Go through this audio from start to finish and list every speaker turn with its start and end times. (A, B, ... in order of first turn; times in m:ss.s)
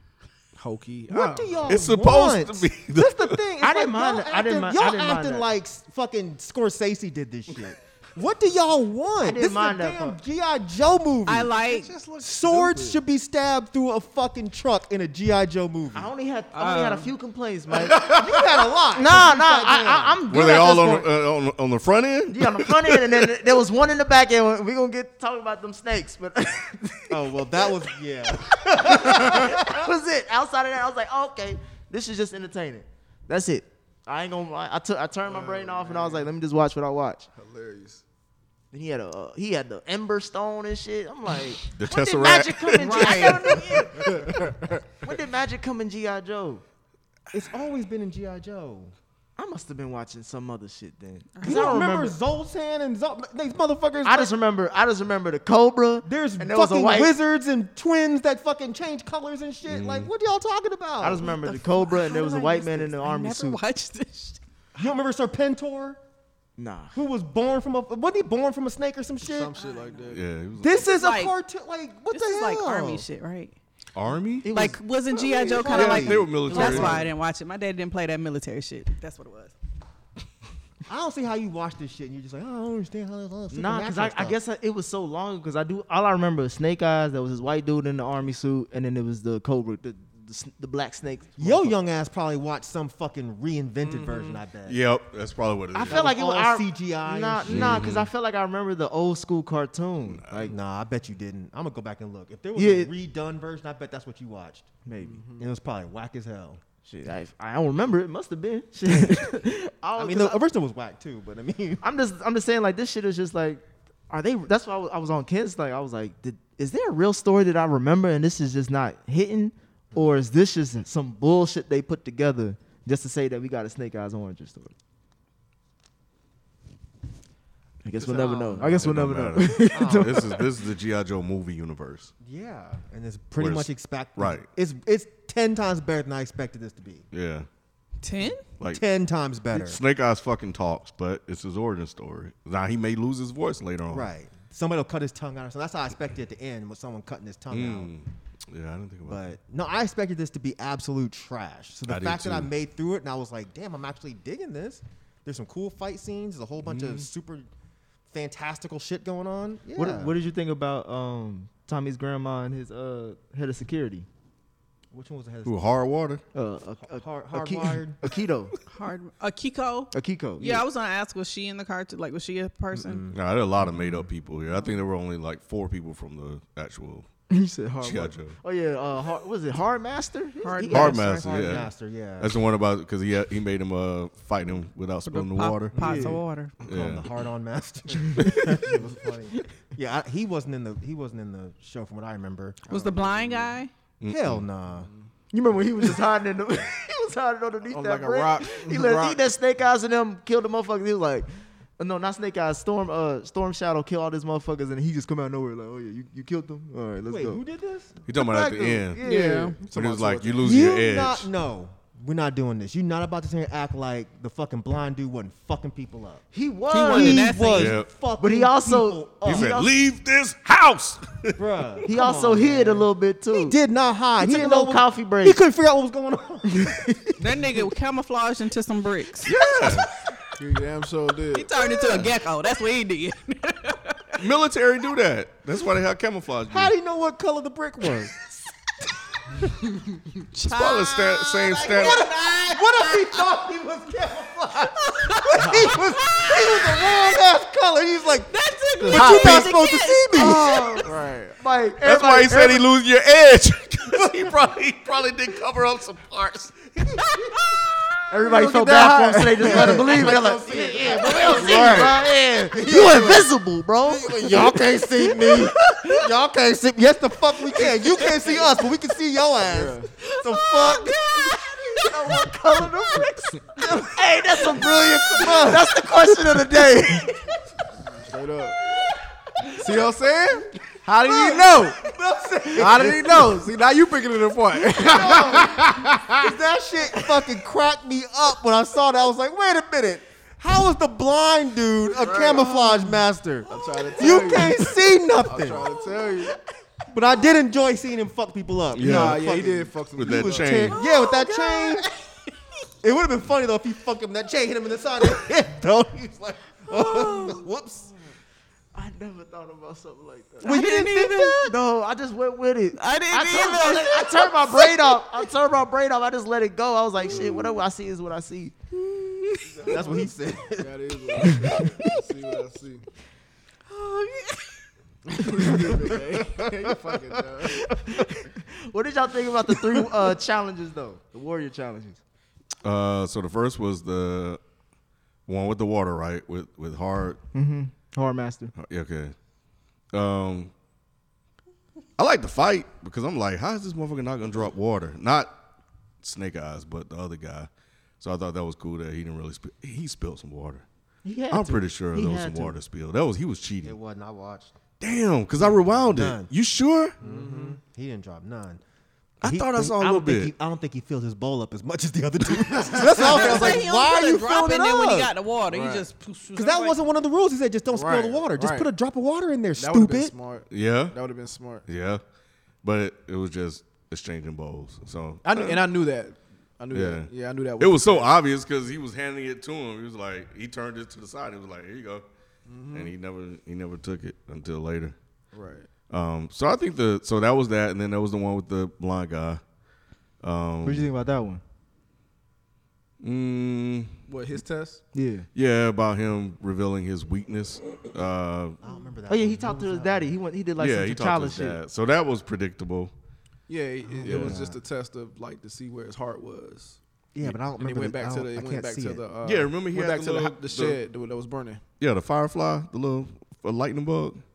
0:00.6-0:01.8 A
0:01.1-0:11.5 B
0:01.7-0:03.4 C
0:03.6-0:05.5 D
0:09.2-0:10.2 D
0:11.3-0:11.9 E
0:11.6-0:13.0 A
0:12.2-0:16.1 B
0:15.9-0:18.1 D
0:16.5-0:17.1 E
0:17.8-0:18.4 A
0:18.0-0:20.2 B
0:18.9-0:21.1 D
0:20.3-0:23.3 C
0:22.3-0:27.6 D
0:27.1-0:29.9 B
0:28.5-0:37.3 D
0:35.3-0:36.3 A
0:37.4-0:38.0 A
0:38.7-0:44.2 D
0:41.7-0:43.2 C
0:42.8-0:43.6 E
0:42.9-0:43.6 B
0:44.0-0:44.8 A
0:45.0-0:46.6 D
0:47.3-0:48.9 B
0:49.4-0:52.2 D
0:51.4-0:51.9 E
0:51.4-0:54.3 B
0:54.0-0:57.1 D
0:56.0-1:01.3 B
0:59.7-1:00.1 C
1:01.0-1:03.6 D
1:01.2-1:04.4 E
1:04.8-1:06.0 B
1:06.6-1:07.0 D
1:06.9-1:09.6 B
1:09.2-1:10.2 A
1:09.6-1:10.2 E
1:10.1-1:10.8 C
1:10.6-1:13.0 B
1:10.8-1:11.3 E
1:12.1-1:13.6 E
1:14.0-1:14.5 C
1:14.4-1:14.8 D
1:14.5-1:19.6 E
1:15.4-1:17.0 B
1:15.5-1:17.0 C
1:16.5-1:17.0 D
1:20.9-1:24.4 B
1:23.5-1:31.8 D
1:31.4-1:34.8 B
1:33.8-1:34.4 A
1:34.7-1:36.1 C
1:35.7-1:40.6 D
1:35.8-1:37.9 B
1:37.5-1:38.1 C
1:40.1-1:40.5 C
1:40.5-1:44.7 B
1:42.6-1:42.9 D
1:44.9-1:45.2 D
1:45.0-1:45.5 A
1:45.4-1:46.6 B
1:46.8-1:50.4 D
1:48.9-1:49.4 B
1:50.0-1:51.8 B
1:51.8-2:04.7 D
2:07.8-2:10.4 D
2:08.0-2:08.9 B
2:08.6-2:12.1 C
2:09.7-2:10.4 B
2:12.2-2:17.1 B
2:13.4-2:14.5 C
2:17.1-2:17.5 C
2:18.0-2:18.4 E
2:18.6-2:19.8 B
2:19.5-2:24.1 C
2:23.9-2:27.9 B
2:27.5-2:29.2 C
2:29.1-2:37.5 B
2:31.9-2:32.5 C
2:36.6-2:37.1 C
2:38.1-2:40.2 B
2:39.8-2:44.1 D
2:44.9-2:45.6 B
2:45.4-2:46.2 C
2:46.3-2:48.6 D
2:46.8-2:48.0 B
2:48.7-2:53.1 E
2:49.9-2:50.6 D
2:52.7-2:54.0 B
2:53.1-2:57.1 C
2:57.3-3:01.2 D
2:57.8-2:58.4 C
3:00.4-3:01.6 E
3:00.7-3:06.1 C
3:01.2-3:02.4 B
3:05.1-3:06.6 E
3:05.7-3:12.7 B
3:05.8-3:06.2 D
3:06.6-3:07.1 C
3:12.7-3:13.7 E
3:12.7-3:13.6 A
3:14.0-3:14.4 C
3:14.1-3:14.9 B
3:14.8-3:15.1 A
3:15.3-3:27.4 D
3:17.7-3:19.2 A
3:27.1-3:28.0 B
3:28.1-3:29.0 C
3:28.1-3:29.5 D
3:29.0-3:29.6 E
3:29.0-3:30.8 A
3:29.6-3:31.3 C
3:30.4-3:39.6 B
3:36.3-3:37.4 D
3:36.7-3:37.8 E
3:37.6-3:37.9 C
3:38.2-3:39.7 D
3:39.3-3:41.4 C
3:41.4-3:47.2 B
3:41.8-3:43.6 D
3:44.2-3:45.4 D
3:47.2-3:49.8 E
3:49.2-3:49.9 C
3:50.4-3:51.5 A
3:51.3-3:54.2 E
3:54.2-3:56.7 C
3:56.5-3:58.3 B
4:00.3-4:03.3 E
4:00.4-4:02.1 C
4:01.6-4:10.8 B
4:04.8-4:07.1 E
4:08.3-4:10.8 E
4:08.8-4:09.4 A
4:10.2-4:12.7 D
4:10.8-4:11.4 A
4:11.8-4:16.6 C
4:14.0-4:14.3 B
4:16.8-4:17.4 B
4:17.1-4:17.7 E
4:18.1-4:25.4 D
4:18.2-4:20.1 A
4:19.4-4:31.5 B
4:21.2-4:21.7 C
4:21.4-4:21.9 A
4:29.4-4:29.9 A
4:30.1-4:31.8 E
4:31.7-4:37.2 D
4:33.6-4:35.7 B
4:38.0-4:38.6 A
4:39.6-4:41.8 A
4:41.0-4:43.4 B
4:42.6-4:46.3 A
4:44.8-4:55.6 B
4:52.0-4:54.7 A
4:55.2-4:56.4 A
4:56.9-5:01.9 B
4:58.7-4:59.3 C
4:58.8-5:00.8 A
5:00.0-5:00.8 C
5:00.8-5:01.9 E
5:02.8-5:07.9 B
5:06.7-5:07.4 E
5:08.7-5:18.6 D
5:10.4-5:11.6 E
5:10.4-5:11.4 B
5:12.8-5:15.2 E
5:19.0-5:19.4 E
5:19.5-5:22.9 A
5:19.6-5:21.7 B
5:21.2-5:21.6 D
5:23.7-5:24.6 E
5:25.1-5:27.7 A
5:25.6-5:26.5 B
5:27.7-5:32.0 D
5:32.6-5:34.4 C
5:35.3-5:37.2 C
5:37.3-5:38.5 D
5:38.6-5:39.2 C
5:39.9-5:40.5 C
5:42.0-5:45.4 C
5:46.0-5:47.5 C
5:48.0-5:50.6 C
5:51.0-5:52.6 D
5:51.3-5:53.8 C
5:53.6-5:54.6 B
5:54.8-5:57.0 C
5:55.8-5:56.3 B
5:57.0-5:58.6 B
5:57.0-5:57.6 A
5:59.2-6:05.1 B
5:59.2-6:00.3 C
6:02.7-6:03.3 A
6:02.8-6:06.8 E
6:05.5-6:05.8 A
6:06.4-6:10.2 B
6:07.7-6:08.7 A
6:09.6-6:11.6 A
6:10.5-6:11.0 C
6:11.7-6:12.0 C
6:12.6-6:15.6 C
6:15.2-6:18.1 A
6:16.7-6:17.1 C
6:17.6-6:22.1 C
6:22.5-6:22.9 A
6:22.7-6:25.0 C
6:25.3-6:25.7 A
6:25.9-6:29.4 C
6:30.2-6:30.9 C
6:30.6-6:31.4 D
6:33.0-6:33.9 C
6:34.1-6:34.8 A
6:34.9-6:35.3 D
6:35.3-6:38.6 C
6:38.6-6:40.1 B
6:39.1-6:41.6 D
6:40.6-6:42.9 C
6:43.5-6:46.8 A
6:43.9-6:44.6 B
6:44.0-6:44.4 C
6:47.1-6:49.0 B
6:47.6-6:51.6 A
6:49.2-6:50.8 C
6:51.8-6:54.2 C